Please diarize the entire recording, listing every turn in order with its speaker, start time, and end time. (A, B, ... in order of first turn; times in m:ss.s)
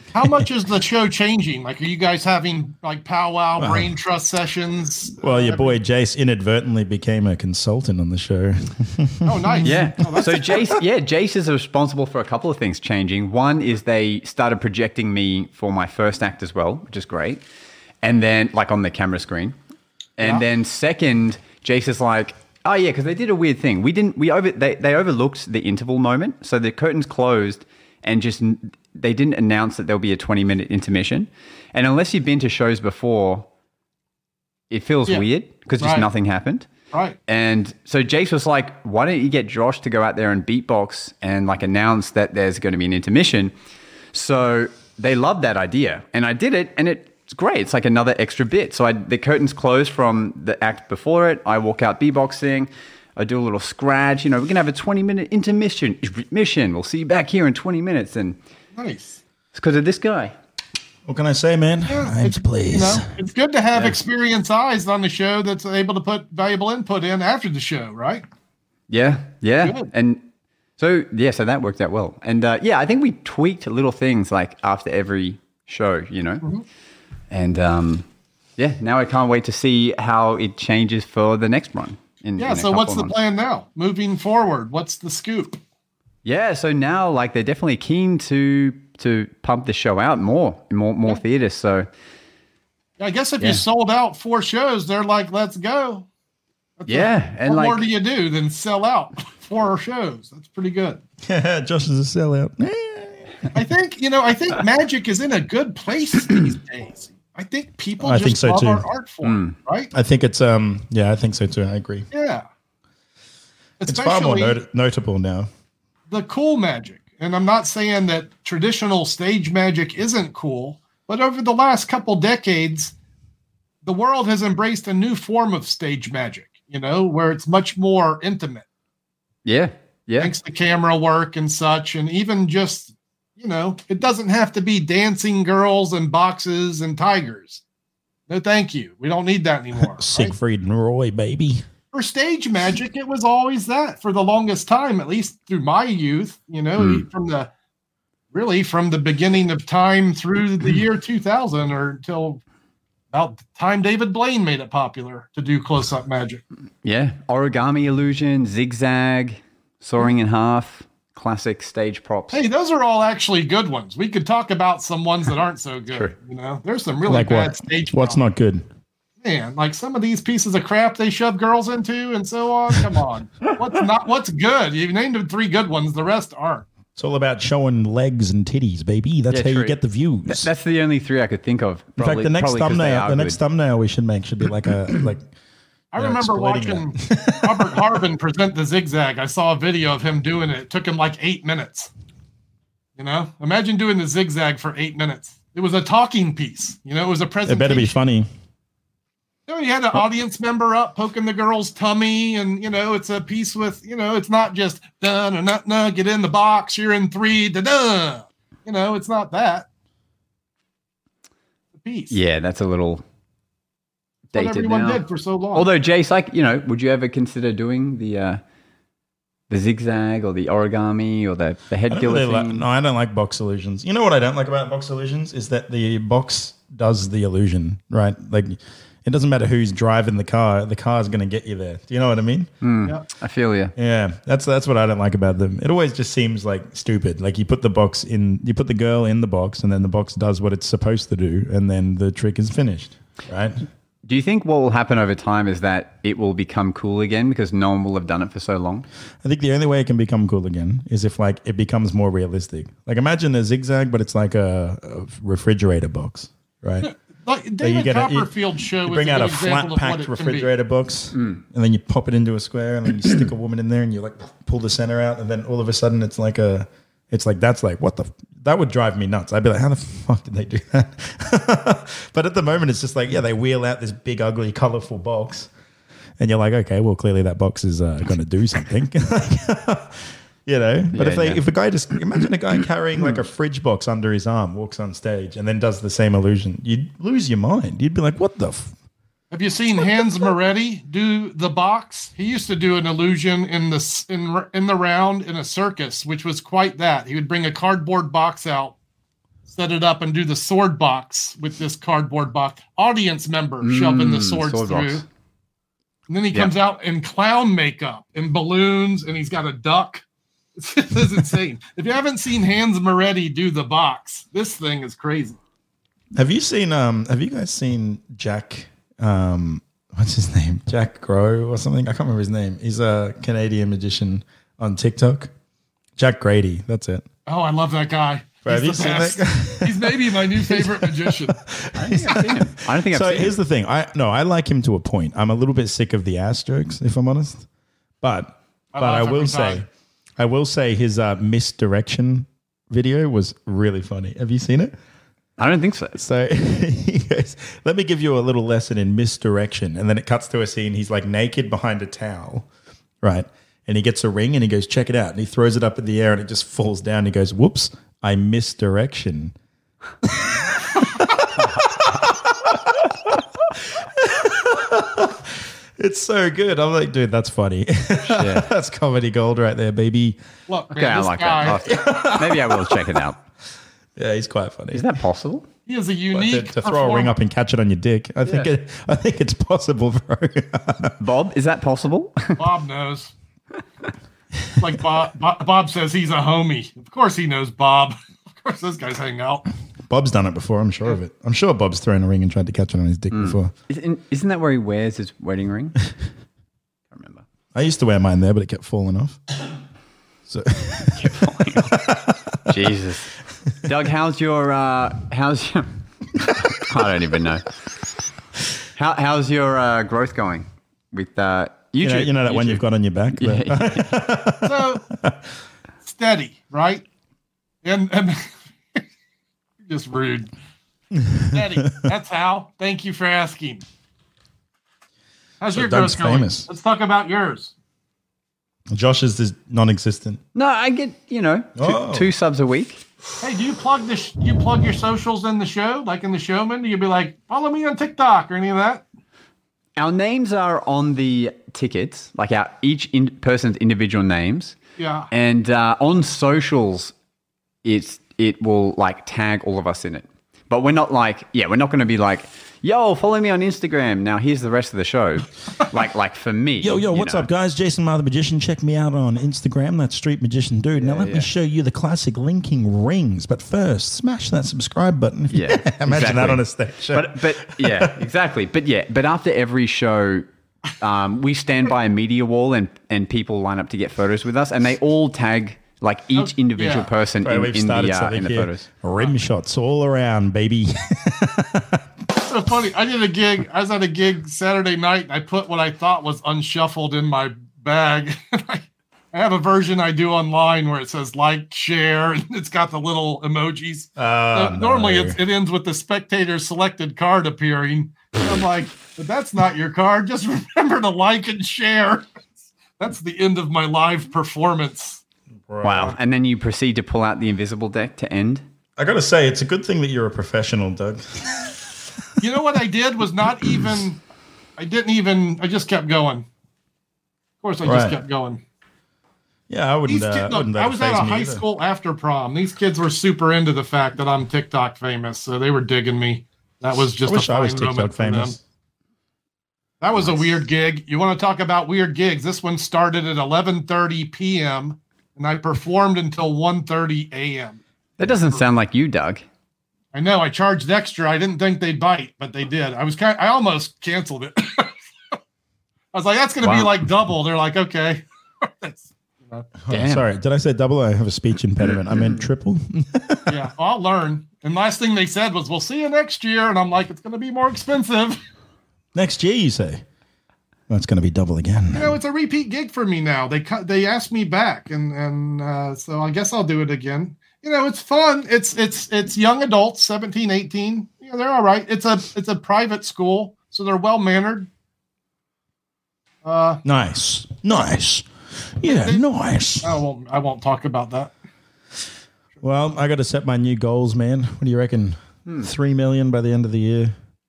0:00.1-0:05.8 A
0:03.6-0:03.9 B
0:05.2-0:10.4 B
0:09.2-0:10.7 A
0:09.6-0:17.4 C
0:18.0-0:19.6 C
0:20.2-0:33.5 C
0:34.7-0:36.7 C
0:35.8-0:36.1 A
0:36.9-0:37.2 A
0:37.3-0:43.5 C
0:44.1-0:58.4 C
0:58.7-0:59.2 A
0:59.5-1:00.3 C
1:01.0-1:03.1 B
1:01.9-1:08.2 A
1:08.9-1:10.2 C
1:09.6-1:09.9 A
1:10.8-1:16.4 C
1:17.3-1:18.0 C
1:18.6-1:23.1 C
1:22.4-1:25.6 A
1:26.2-1:31.9 C
1:33.0-1:36.1 A
1:36.8-1:41.0 A
1:36.9-1:37.9 C
1:41.2-1:43.5 B
1:43.5-1:49.9 A
1:48.0-1:48.8 B
1:49.2-1:49.5 C
1:49.9-1:52.1 B
1:52.1-1:52.4 A
1:53.8-1:54.6 A
1:53.8-1:55.5 B
1:56.1-2:02.9 A
2:03.8-2:08.6 A
2:09.4-2:10.3 C
2:10.2-2:17.6 A
2:18.3-2:20.3 A
2:19.9-2:21.6 B
2:21.9-2:27.5 A
2:26.8-2:27.0 C
2:28.3-2:32.4 A
2:33.1-2:36.4 A
2:36.8-2:42.4 C
2:42.3-2:48.2 A
2:47.1-2:48.6 B
2:49.2-2:56.6 A
2:56.9-3:00.5 B
2:59.3-3:03.4 C
3:02.0-3:05.2 B
3:05.9-3:11.9 A
3:06.0-3:07.8 B
3:13.0-3:17.9 A
3:17.4-3:18.3 B
3:19.5-3:29.7 A
3:31.7-3:32.2 A
3:32.1-3:33.0 C
3:34.3-3:35.0 C
3:34.3-3:35.7 A
3:35.5-3:38.4 C
3:39.5-3:42.6 C
3:41.9-3:52.5 B
3:52.6-3:53.7 C
3:53.8-4:03.6 B
4:04.0-4:08.8 C
4:09.2-4:16.9 B
4:16.8-4:20.5 A
4:17.6-4:35.5 B
4:36.2-4:48.7 B
4:40.9-4:41.4 C
4:49.3-4:58.7 A
4:59.5-5:05.0 A
5:03.6-5:05.0 C
5:06.1-5:10.0 A
5:10.5-5:15.4 A
5:16.1-5:25.3 B
5:26.0-5:27.0 B
5:27.2-5:31.4 A
5:28.4-5:37.4 B
5:31.8-5:33.3 C
5:38.0-5:39.7 B
5:38.7-5:39.6 A
5:40.2-5:44.7 B
5:45.4-5:46.0 C
5:45.9-5:52.5 B
5:53.0-5:59.3 B
6:00.0-6:02.5 B
6:03.5-6:10.2 B
6:08.0-6:08.5 C
6:10.5-6:11.6 A
6:10.7-6:13.2 C
6:11.5-6:12.8 B
6:14.0-6:14.8 B
6:14.7-6:15.5 C
6:15.7-6:17.2 A
6:16.1-6:21.0 B
6:18.2-6:18.5 C
6:21.0-6:22.5 C
6:22.4-6:23.1 A
6:24.6-6:29.4 A
6:29.9-6:33.5 B
6:33.1-6:35.8 C
6:36.9-6:37.2 C
6:37.5-6:39.2 B
6:40.3-6:42.5 B
6:40.9-6:41.8 C
6:42.5-6:47.5 C
6:48.8-6:53.9 C
6:51.8-6:55.2 B
6:54.4-6:54.8 A
6:55.8-6:56.8 A
6:57.6-6:58.8 A
6:59.6-7:00.3 A
7:01.0-7:01.8 B
7:01.3-7:03.6 A
7:05.4-7:07.5 A
7:05.5-7:06.5 B
7:08.7-7:10.2 B
7:10.3-7:12.8 C
7:11.6-7:12.1 B
7:13.2-7:18.8 A
7:19.8-7:24.6 C
7:24.8-7:25.1 A
7:25.1-7:26.9 C
7:27.6-7:37.3 C
7:36.6-7:48.0 B
7:40.8-7:41.3 C
7:45.3-7:50.2 C
7:50.8-7:58.6 C
7:56.1-7:56.9 A
7:57.2-8:01.8 B
8:02.2-8:22.1 A
8:14.0-8:15.2 B
8:22.8-8:25.0 A
8:25.5-8:26.0 B
8:25.6-8:28.4 C
8:28.8-8:31.5 B
8:32.2-8:34.0 A
8:34.6-8:36.2 A
8:37.4-8:38.4 A
8:37.6-8:38.0 B
8:39.5-8:41.4 B
8:39.9-8:48.4 A
8:47.0-8:48.4 B
8:49.8-8:58.4 A
8:58.0-8:59.2 C
8:59.9-9:04.8 A
9:05.9-9:09.5 A
9:06.4-9:06.7 C
9:09.6-9:13.3 B
9:09.7-9:10.0 C
9:13.3-9:18.2 A
9:18.9-9:19.8 B
9:20.7-9:21.9 B
9:21.7-9:34.5 A
9:36.2-9:36.6 A
9:36.6-9:39.8 B
9:38.6-9:39.0 A
9:39.6-9:41.1 A
9:42.4-9:46.9 B